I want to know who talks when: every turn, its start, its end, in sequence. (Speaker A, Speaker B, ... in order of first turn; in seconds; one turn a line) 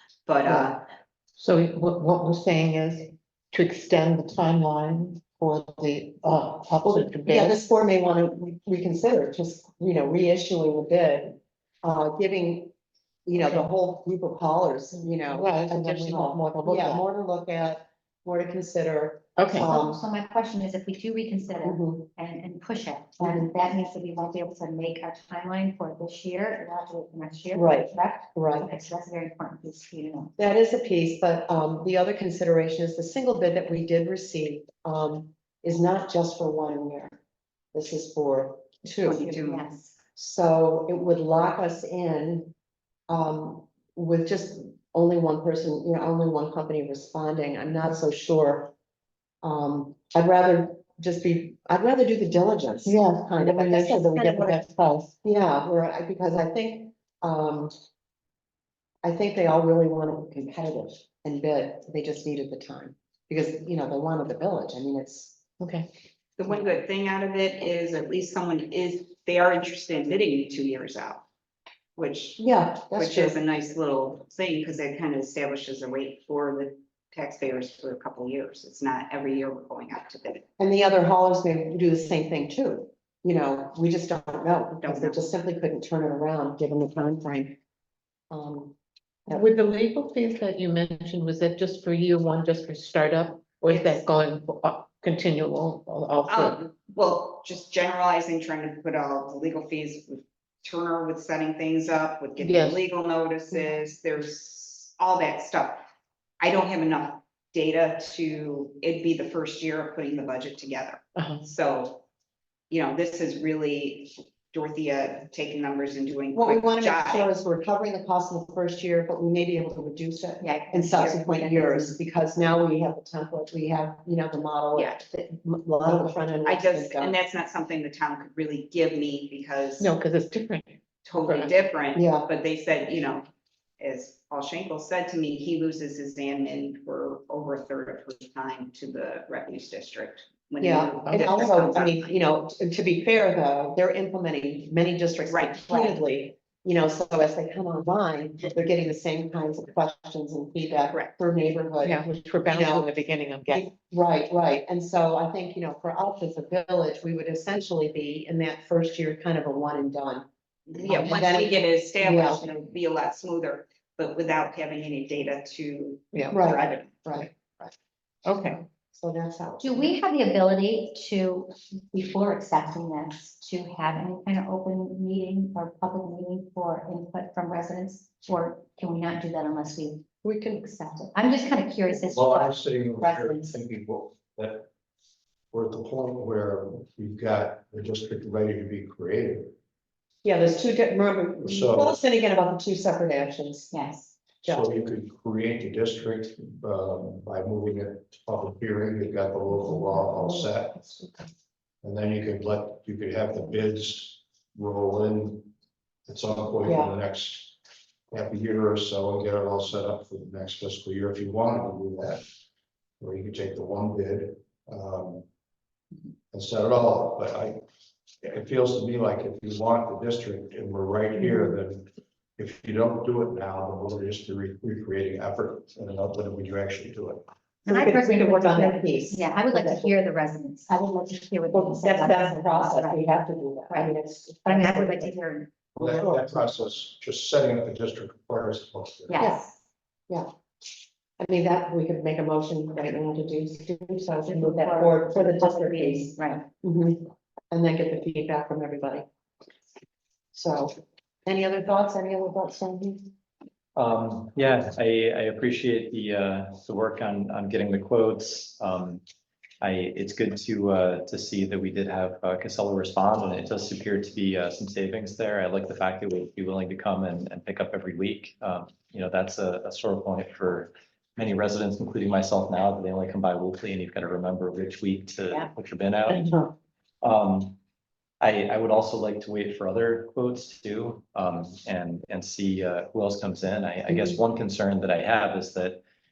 Speaker A: 0.2-0.8
Speaker B: 0.5-0.8
Speaker C: 1.4-7.6
Speaker B: 6.8-12.7
Speaker B: 13.2-20.0
Speaker C: 15.2-17.0
Speaker C: 19.4-19.7
Speaker D: 19.6-30.3
Speaker B: 21.6-22.1
Speaker B: 23.2-23.5
Speaker B: 27.5-28.8
Speaker B: 30.4-37.2
Speaker B: 37.7-39.3
Speaker A: 39.0-39.7
Speaker D: 39.1-39.9
Speaker B: 40.1-42.5
Speaker B: 43.1-48.7
Speaker B: 49.4-54.6
Speaker C: 52.8-55.2
Speaker B: 55.2-57.7
Speaker B: 59.0-65.4
Speaker C: 65.6-65.9
Speaker A: 66.4-71.2
Speaker A: 72.0-80.5
Speaker B: 72.4-73.3
Speaker B: 80.6-87.6
Speaker A: 84.8-85.3
Speaker B: 88.3-88.8
Speaker C: 89.3-96.6
Speaker A: 93.7-94.0
Speaker A: 96.3-105.8
Speaker C: 102.4-102.8
Speaker A: 106.4-112.0
Speaker C: 111.1-111.5
Speaker A: 112.7-117.3
Speaker B: 116.3-127.2
Speaker D: 120.4-122.0
Speaker A: 126.4-129.9
Speaker C: 129.8-131.5
Speaker A: 131.0-133.3
Speaker B: 131.9-132.3
Speaker A: 133.8-142.1
Speaker B: 140.6-152.9
Speaker A: 145.3-146.0
Speaker A: 150.9-151.2
Speaker C: 151.8-153.7
Speaker B: 153.5-160.2
Speaker A: 160.7-167.3
Speaker B: 160.8-162.4
Speaker B: 166.3-167.4
Speaker C: 168.2-168.6
Speaker B: 168.9-169.9
Speaker D: 169.6-180.0
Speaker B: 180.2-181.0
Speaker D: 181.0-182.6
Speaker E: 181.9-184.7
Speaker B: 183.0-183.5
Speaker E: 185.5-189.5
Speaker B: 190.2-193.7
Speaker E: 191.4-192.0
Speaker D: 193.7-194.2
Speaker E: 194.4-200.9
Speaker E: 201.8-205.5
Speaker E: 206.1-207.6
Speaker B: 206.6-206.9
Speaker E: 208.1-212.2
Speaker E: 213.0-215.2
Speaker E: 216.3-217.6
Speaker E: 218.2-227.2
Speaker B: 227.7-229.9
Speaker D: 227.7-233.1
Speaker B: 230.7-235.1
Speaker D: 233.7-235.5
Speaker E: 235.7-239.2
Speaker B: 235.8-236.2
Speaker D: 239.1-239.6
Speaker B: 239.2-239.5
Speaker B: 241.2-249.1
Speaker D: 244.2-246.5
Speaker B: 250.3-253.1
Speaker F: 253.8-259.0
Speaker F: 259.6-276.4
Speaker F: 277.0-277.6
Speaker F: 278.2-285.8